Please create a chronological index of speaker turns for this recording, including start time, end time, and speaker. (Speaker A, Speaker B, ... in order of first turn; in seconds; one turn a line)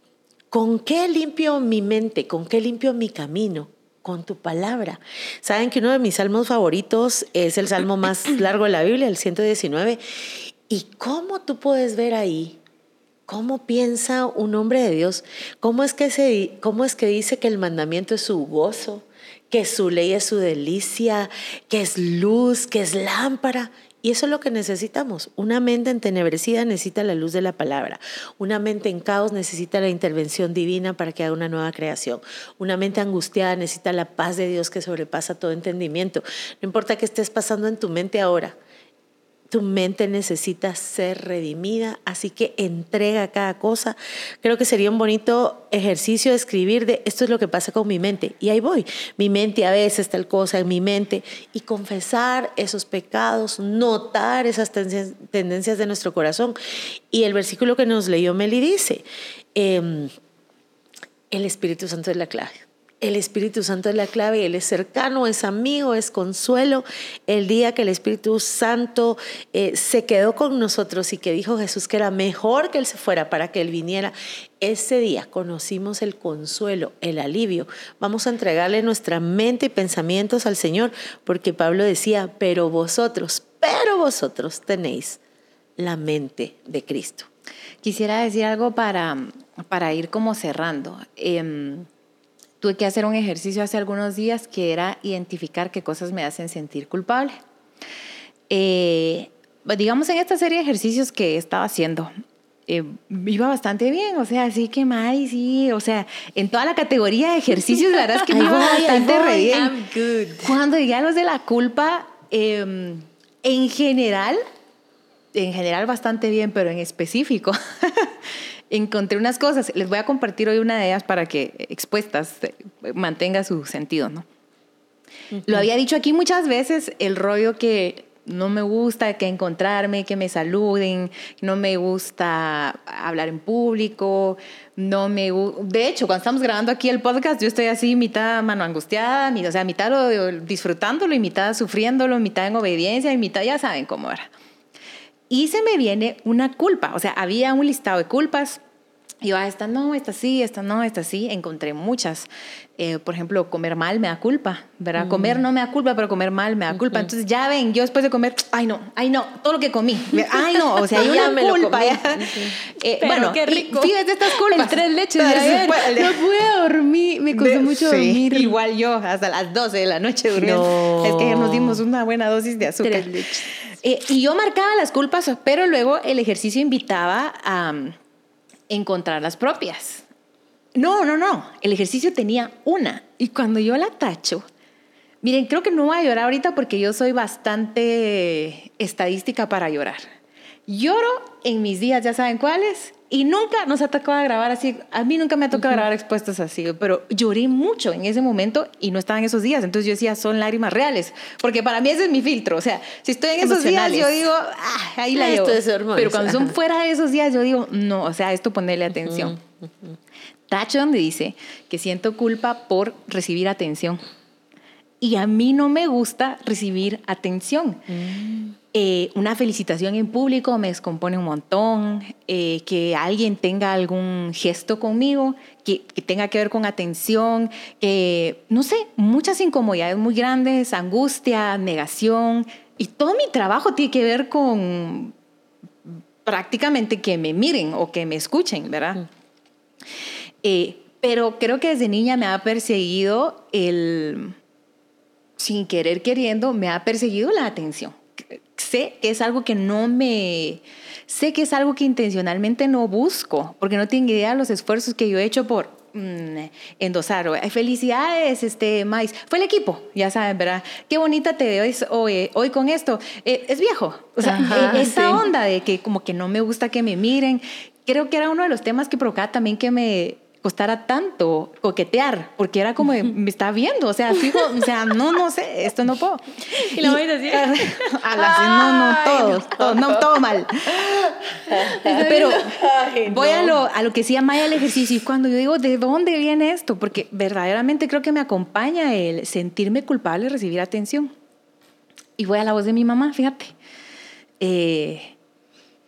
Speaker A: 0.5-10.0
Speaker A: 10.7-12.6
Speaker A: 13.3-38.6
Speaker A: 39.5-56.6
Speaker A: 57.1-59.0
Speaker A: 59.5-60.1
Speaker A: 61.3-85.2
Speaker A: 85.8-87.3
Speaker B: 87.8-91.9
Speaker B: 92.6-97.3
Speaker B: 98.5-102.1
Speaker B: 102.7-109.8
Speaker A: 108.3-109.3
Speaker C: 108.4-110.5
Speaker B: 110.4-114.4
Speaker B: 115.3-124.3
Speaker B: 125.5-144.3
Speaker B: 145.3-148.6
Speaker B: 149.2-166.2
Speaker A: 155.0-155.4
Speaker A: 160.9-162.6
Speaker C: 163.0-168.6
Speaker B: 167.3-178.0
Speaker A: 170.3-171.8
Speaker C: 172.7-173.5
Speaker B: 178.7-180.1
Speaker B: 180.8-184.4
Speaker B: 185.2-190.0
Speaker B: 190.7-209.4
Speaker A: 203.4-204.1
Speaker A: 205.2-206.6
Speaker B: 210.5-214.0
Speaker B: 215.0-217.8
Speaker A: 217.9-218.5
Speaker B: 218.7-235.1
Speaker B: 235.8-239.1
Speaker B: 240.4-244.3
Speaker B: 245.4-280.9
Speaker C: 264.2-265.2
Speaker A: 264.4-264.9
Speaker C: 276.6-279.5
Speaker A: 280.9-283.6
Speaker C: 281.5-282.6
Speaker B: 281.9-291.1
Speaker B: 292.2-293.5
Speaker B: 294.4-295.1